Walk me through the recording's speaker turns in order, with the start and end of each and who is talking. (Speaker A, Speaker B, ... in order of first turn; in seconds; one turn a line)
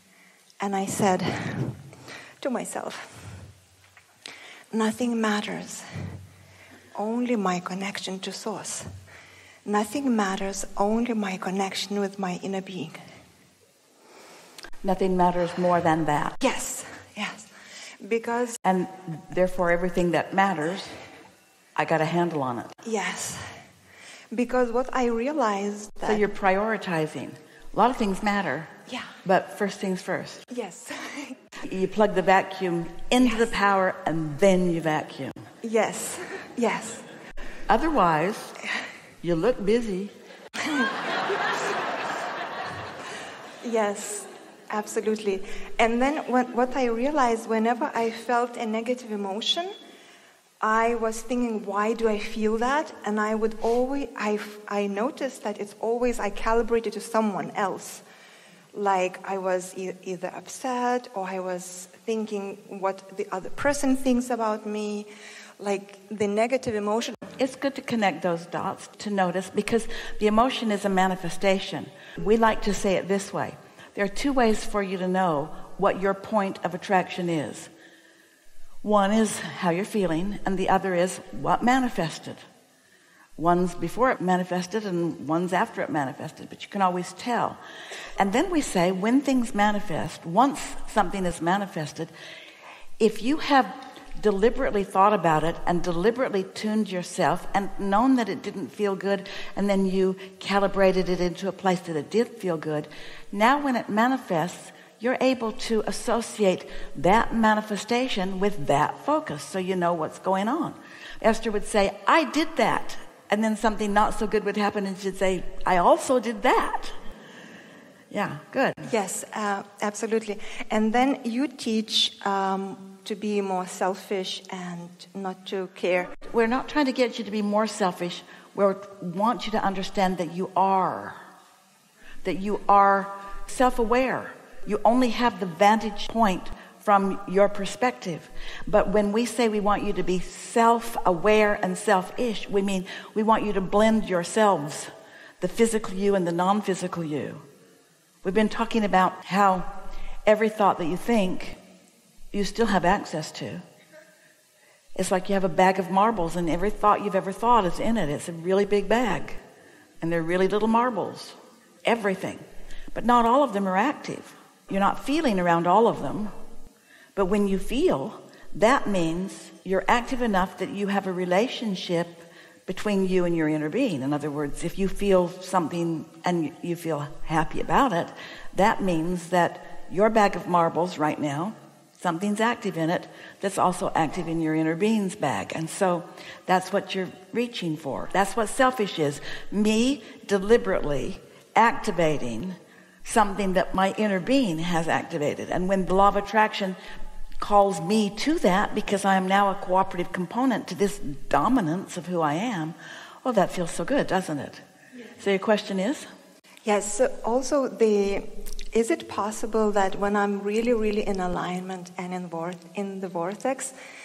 Speaker A: 0.6-1.9
Speaker A: 2.4-3.5
Speaker A: 4.7-6.2
Speaker A: 7.0-8.9
Speaker A: 9.7-13.0
Speaker B: 14.8-16.4
Speaker A: 16.4-17.5
Speaker A: 18.0-18.6
Speaker B: 18.6-21.0
Speaker B: 21.8-22.8
Speaker A: 22.8-23.4
Speaker A: 24.3-26.3
Speaker B: 26.1-28.7
Speaker B: 29.2-30.5
Speaker A: 30.5-31.4
Speaker B: 31.6-35.4
Speaker A: 35.6-37.0
Speaker B: 37.7-38.6
Speaker B: 39.2-40.1
Speaker A: 43.6-49.7
Speaker A: 50.6-58.0
Speaker A: 58.7-67.2
Speaker B: 67.4-77.7
Speaker B: 78.8-82.4
Speaker B: 83.4-87.6
Speaker B: 88.2-92.1
Speaker B: 93.0-116.9
Speaker B: 118.1-118.9
Speaker A: 118.8-126.2
Speaker B: 126.3-131.2
Speaker B: 132.2-147.4
Speaker B: 148.2-149.7
Speaker B: 150.3-151.6
Speaker B: 152.3-153.6
Speaker B: 155.0-159.4
Speaker B: 160.0-166.3
Speaker B: 167.2-196.8
Speaker B: 197.4-204.6
Speaker B: 205.2-206.1
Speaker A: 206.7-213.7